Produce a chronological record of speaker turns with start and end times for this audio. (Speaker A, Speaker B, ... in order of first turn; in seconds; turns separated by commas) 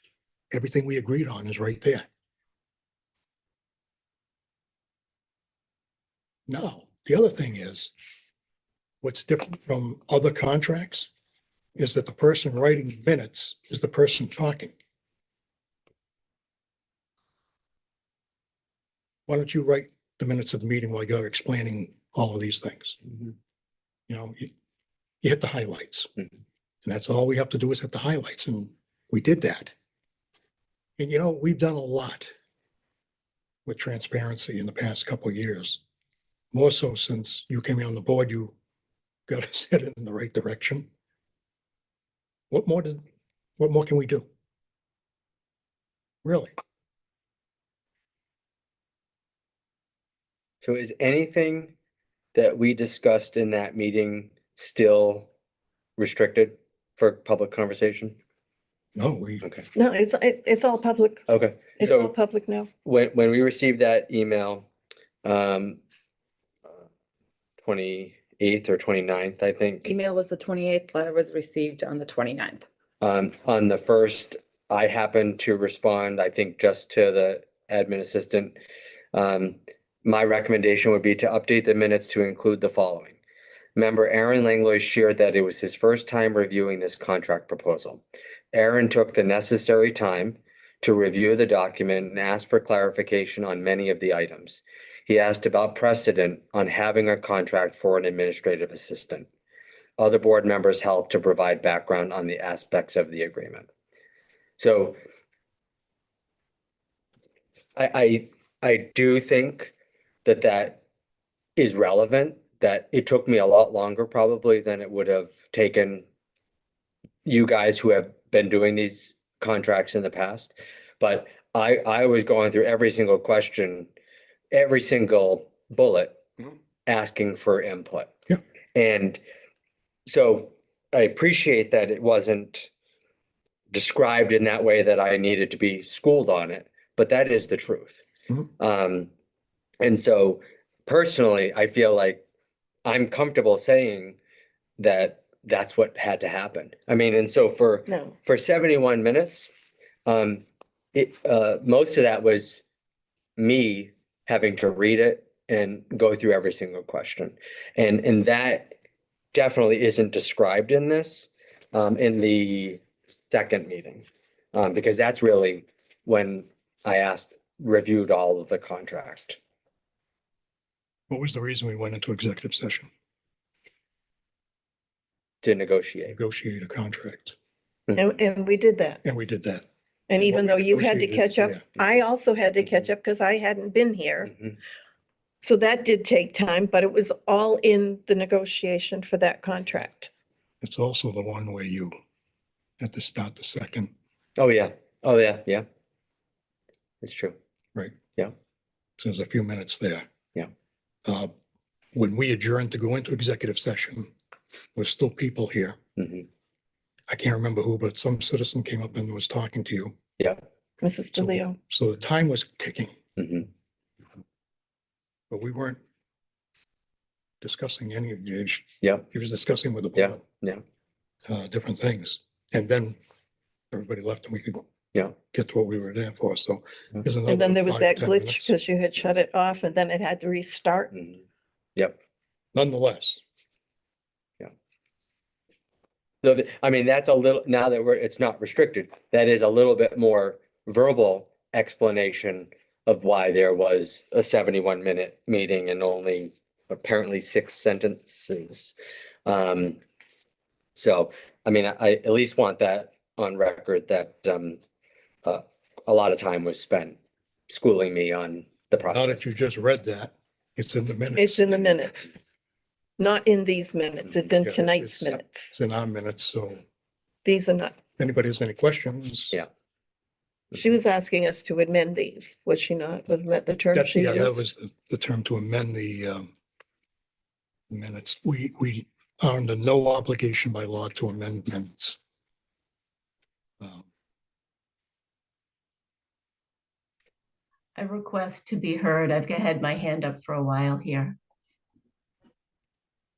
Speaker A: 0.5-2.1, Speaker A: 6.5-7.9, Speaker A: 9.0-11.1, Speaker A: 11.8-14.7, Speaker A: 19.3-23.0, Speaker A: 24.1-24.5, Speaker A: 25.2-26.1, Speaker A: 26.8-29.7, Speaker A: 31.0-32.3, Speaker A: 33.7-35.8, Speaker A: 36.5-38.5, Speaker A: 39.3-40.9, Speaker A: 42.5-43.0, Speaker A: 43.6-44.2, Speaker A: 46.2-46.5, Speaker B: 50.6-51.7, Speaker B: 52.3-55.3, Speaker B: 56.0-58.2, Speaker A: 58.9-59.4, Speaker C: 59.8-61.2, Speaker B: 61.3-62.1, Speaker C: 61.8-62.7, Speaker B: 62.8-64.7, Speaker B: 65.2-65.8, Speaker B: 67.6-69.9, Speaker D: 69.8-72.6, Speaker B: 73.0-78.6, Speaker B: 79.1-83.2, Speaker B: 83.8-99.3, Speaker B: 100.0-103.7, Speaker B: 104.6-105.0, Speaker B: 107.8-109.7, Speaker B: 110.2-110.8, Speaker B: 111.6-116.0, Speaker B: 117.2-123.9, Speaker B: 124.5-126.2, Speaker B: 126.8-128.1, Speaker B: 128.8-129.2, Speaker B: 130.1-132.7, Speaker B: 133.7-138.0, Speaker B: 138.6-139.1, Speaker B: 139.8-142.2, Speaker B: 142.8-144.2, Speaker B: 144.8-149.5, Speaker C: 147.9-148.1, Speaker B: 150.1-152.6, Speaker B: 153.4-158.7, Speaker B: 159.3-169.4, Speaker A: 171.1-172.9, Speaker B: 175.4-176.2, Speaker A: 176.1-177.3, Speaker C: 177.9-179.0, Speaker A: 179.0-179.7, Speaker C: 180.1-184.3, Speaker A: 180.2-181.8, Speaker C: 185.4-190.1, Speaker A: 190.6-191.9, Speaker A: 192.8-193.9, Speaker B: 194.4-195.7, Speaker B: 197.0-197.3, Speaker A: 199.0-200.1, Speaker A: 201.1-201.3, Speaker A: 201.9-204.1, Speaker A: 204.8-205.8, Speaker B: 206.0-206.2, Speaker A: 207.1-209.9, Speaker C: 210.8-211.6, Speaker A: 211.2-212.9, Speaker B: 213.2-213.5, Speaker A: 215.3-215.8, Speaker A: 217.4-220.2, Speaker B: 220.0-220.6, Speaker A: 221.2-223.0, Speaker A: 223.7-224.6, Speaker A: 225.3-228.5, Speaker C: 227.3-230.9, Speaker B: 230.9-231.2, Speaker A: 232.5-233.2, Speaker B: 236.2-248.7, Speaker B: 249.2-249.8, Speaker B: 250.8-254.6, Speaker B: 255.2-257.0, Speaker B: 257.5-259.3, Speaker A: 258.9-261.6, Speaker C: 261.1-262.0, Speaker C: 263.0-265.5, Speaker A: 264.4-266.6, Speaker C: 267.2-267.8, Speaker A: 268.0-269.4, Speaker C: 270.6-274.4, Speaker A: 273.7-276.3, Speaker A: 277.7-282.0, Speaker A: 283.6-283.9, Speaker E: 287.8-291.2